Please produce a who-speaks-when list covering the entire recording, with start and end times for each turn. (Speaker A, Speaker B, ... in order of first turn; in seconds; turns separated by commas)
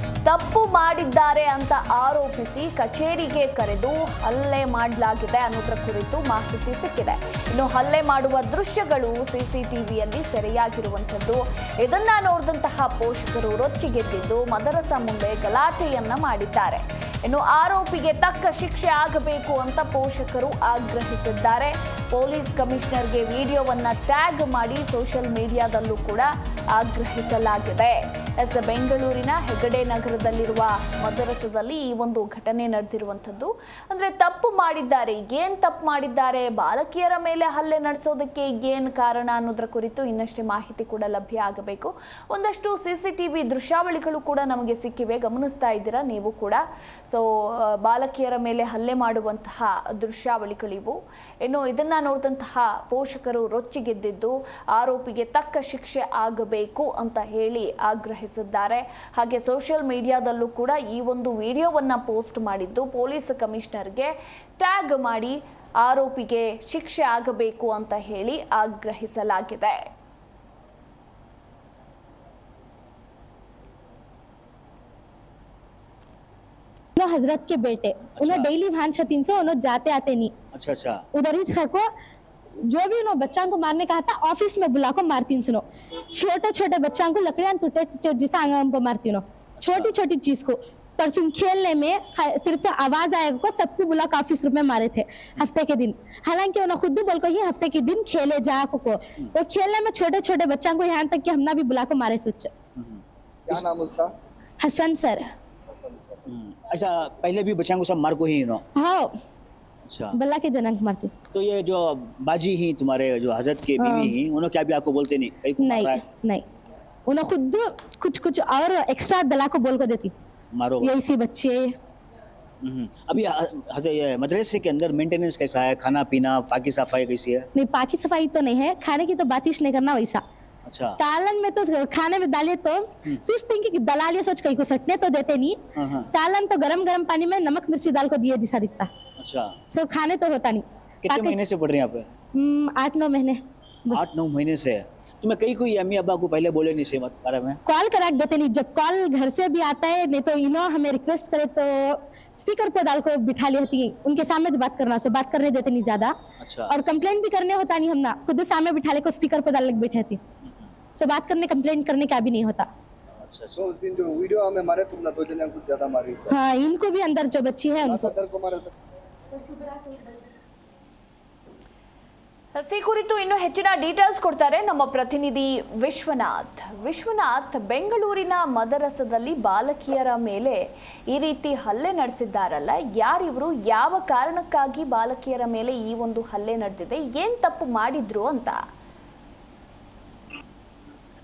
Speaker A: 0.2-69.9, Speaker B: 77.0-80.3, Speaker C: 78.2-78.5, Speaker C: 80.5-81.0, Speaker B: 81.2-81.8, Speaker B: 82.7-102.5, Speaker C: 89.6-89.9, Speaker C: 102.8-103.6, Speaker D: 103.5-104.1, Speaker B: 104.6-105.2, Speaker D: 105.7-106.2, Speaker C: 106.3-108.6, Speaker B: 108.8-109.1, Speaker C: 109.9-110.2, Speaker B: 110.1-111.1, Speaker C: 111.3-116.1, Speaker B: 113.8-114.2, Speaker B: 115.6-116.4, Speaker B: 117.1-120.1, Speaker C: 120.5-120.9, Speaker B: 120.8-121.7, Speaker C: 122.6-127.5, Speaker B: 127.5-130.2, Speaker C: 130.7-131.0, Speaker B: 131.0-135.6, Speaker C: 135.7-136.1, Speaker B: 136.1-138.9, Speaker C: 139.2-139.6, Speaker B: 139.7-141.4, Speaker C: 141.0-142.1, Speaker B: 142.3-144.1, Speaker C: 143.9-147.6, Speaker B: 147.7-156.1, Speaker C: 156.4-156.7, Speaker B: 156.7-160.2, Speaker C: 160.4-160.7, Speaker B: 160.9-162.7, Speaker C: 163.2-163.6, Speaker D: 163.5-166.3, Speaker B: 166.3-168.1, Speaker D: 167.8-168.7, Speaker B: 169.4-169.9, Speaker A: 172.5-180.6, Speaker A: 181.1-188.6